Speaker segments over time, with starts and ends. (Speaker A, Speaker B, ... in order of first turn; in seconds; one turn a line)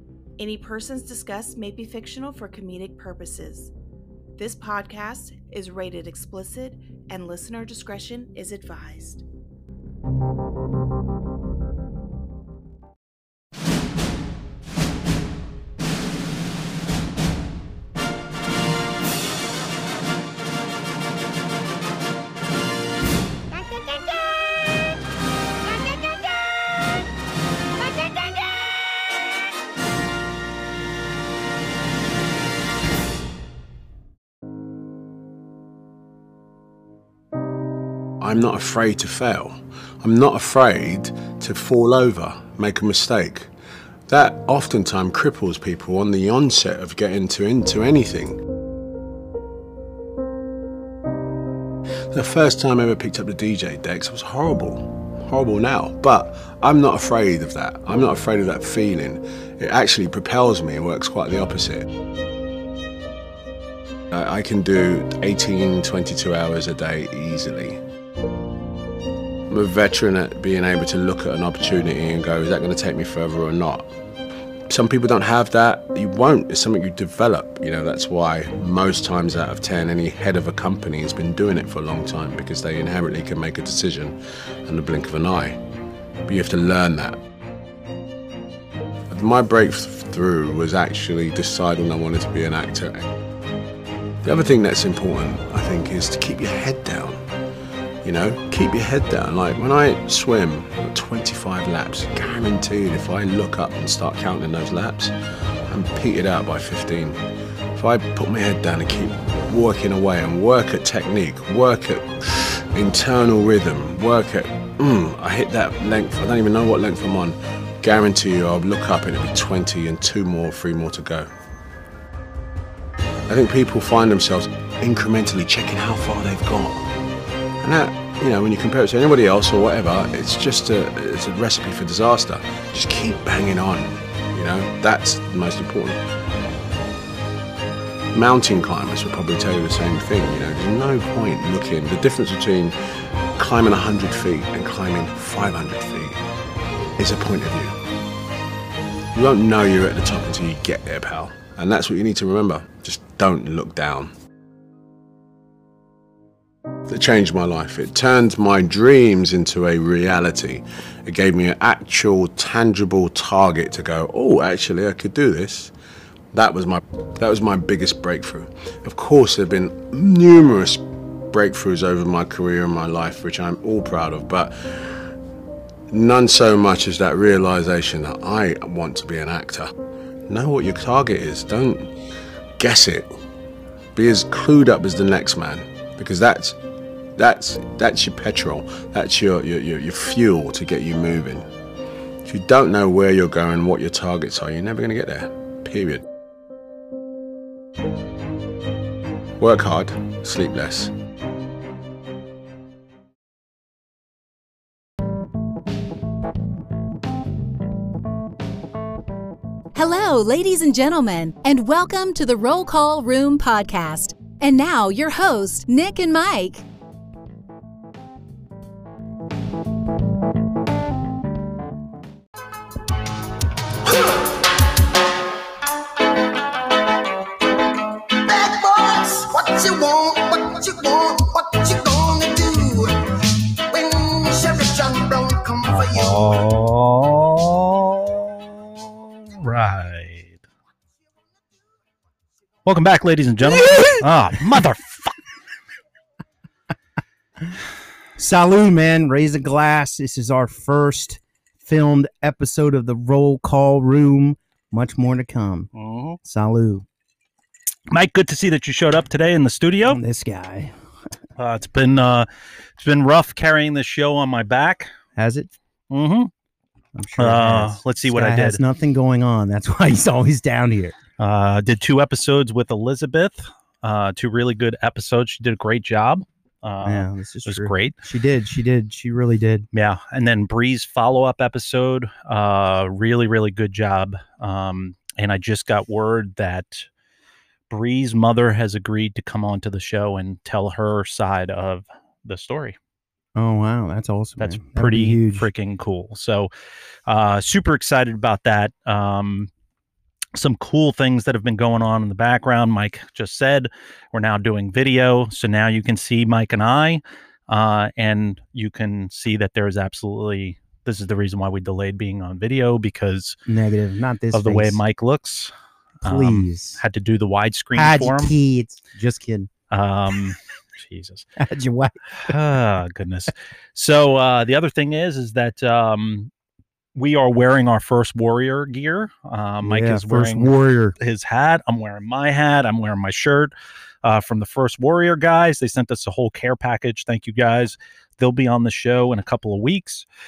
Speaker A: 0.4-3.7
Speaker A: 4.4-9.2
Speaker B: 38.2-43.5
Speaker B: 44.1-48.4
Speaker B: 52.1-61.9
Speaker B: 64.1-67.8
Speaker B: 69.5-73.9
Speaker B: 74.7-85.6
Speaker B: 86.2-87.2
Speaker B: 89.1-93.1
Speaker B: 94.2-97.2
Speaker B: 98.0-105.1
Speaker B: 105.7-107.2
Speaker B: 107.8-121.3
Speaker B: 123.3-126.9
Speaker B: 127.6-136.0
Speaker B: 138.1-142.8
Speaker B: 143.4-146.2
Speaker B: 147.0-147.8
Speaker B: 149.1-154.1
Speaker B: 156.9-165.7
Speaker B: 166.3-174.5
Speaker B: 175.9-179.7
Speaker B: 180.3-181.9
Speaker B: 182.6-183.1
Speaker B: 183.9-186.6
Speaker B: 187.2-191.5
Speaker B: 192.2-196.0
Speaker B: 199.4-200.9
Speaker C: 209.8-216.7
Speaker D: 223.9-224.5
Speaker D: 228.2-236.2
Speaker E: 235.7-240.4
Speaker E: 242.7-245.2
Speaker F: 243.5-243.9
Speaker F: 248.2-255.7
Speaker E: 255.7-256.2
Speaker F: 256.2-256.9
Speaker E: 257.9-260.0
Speaker F: 259.8-260.7
Speaker E: 261.4-264.9
Speaker F: 265.2-265.5
Speaker E: 265.9-266.3
Speaker F: 266.9-271.0
Speaker E: 267.2-268.6
Speaker E: 271.2-278.0
Speaker F: 276.8-279.7
Speaker E: 279.7-286.9
Speaker E: 287.7-292.8
Speaker F: 293.4-295.5
Speaker E: 294.4-296.5
Speaker E: 297.1-299.5
Speaker E: 300.4-313.4
Speaker F: 313.5-314.8
Speaker E: 314.3-318.4
Speaker F: 316.0-316.8
Speaker F: 317.7-319.5
Speaker E: 319.7-321.3
Speaker F: 321.4-322.3
Speaker E: 322.1-326.3
Speaker E: 327.0-333.5
Speaker F: 329.6-331.0
Speaker E: 334.0-340.1